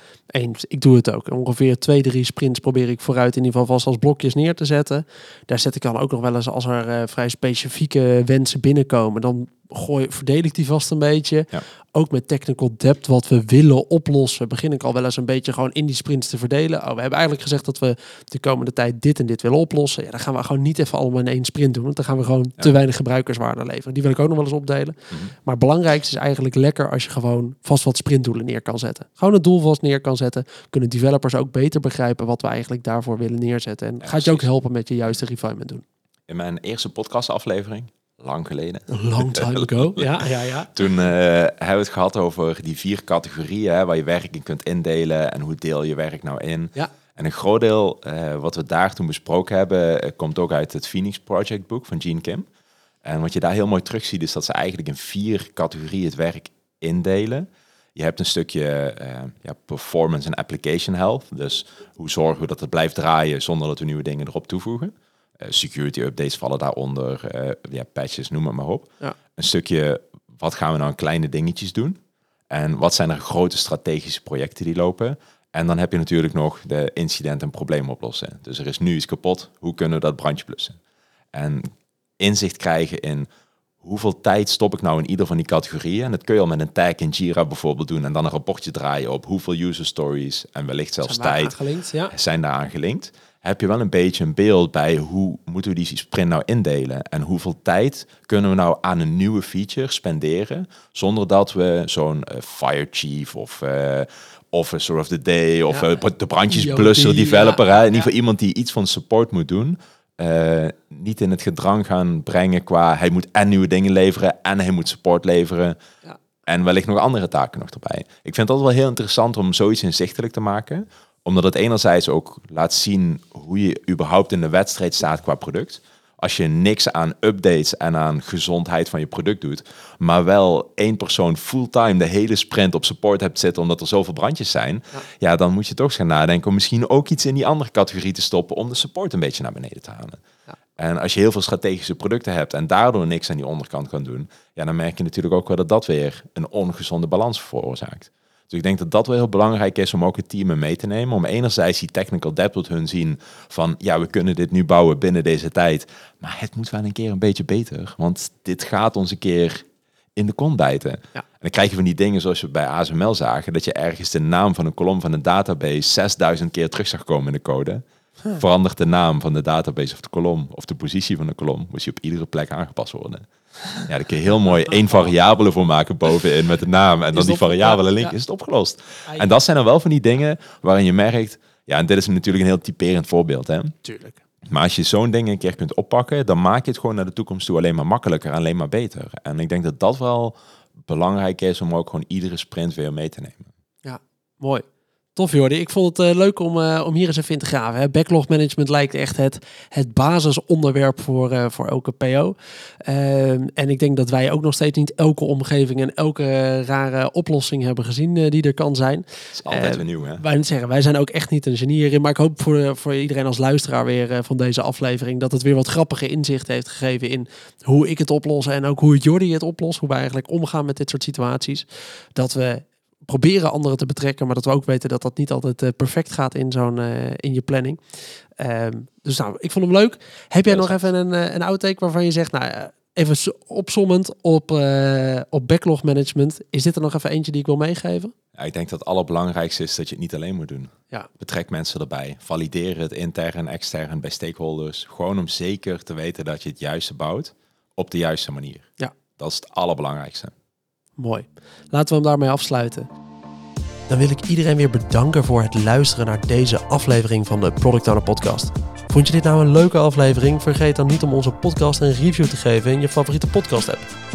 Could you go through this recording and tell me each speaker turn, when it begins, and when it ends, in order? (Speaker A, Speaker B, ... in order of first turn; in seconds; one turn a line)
Speaker A: 0.3-35.8
Speaker B: 34.0-34.5
Speaker B: 36.3-52.5
Speaker A: 38.9-40.7
Speaker B: 53.0-72.0
Speaker B: 72.5-80.8
Speaker B: 81.3-83.3
Speaker B: 83.8-91.5
Speaker A: 91.0-92.1
Speaker B: 92.1-115.8
Speaker A: 105.7-106.0
Speaker A: 106.5-107.6
Speaker B: 116.5-140.2
Speaker B: 140.8-167.8
Speaker B: 168.3-173.3
Speaker B: 173.8-183.8
Speaker A: 177.1-178.1
Speaker A: 183.8-184.2
Speaker B: 184.4-193.5
Speaker A: 193.8-227.8
Speaker B: 209.3-210.2
Speaker A: 228.4-238.1
Speaker B: 230.5-230.8
Speaker B: 238.3-250.3
Speaker A: 251.0-252.9
Speaker A: 253.9-263.9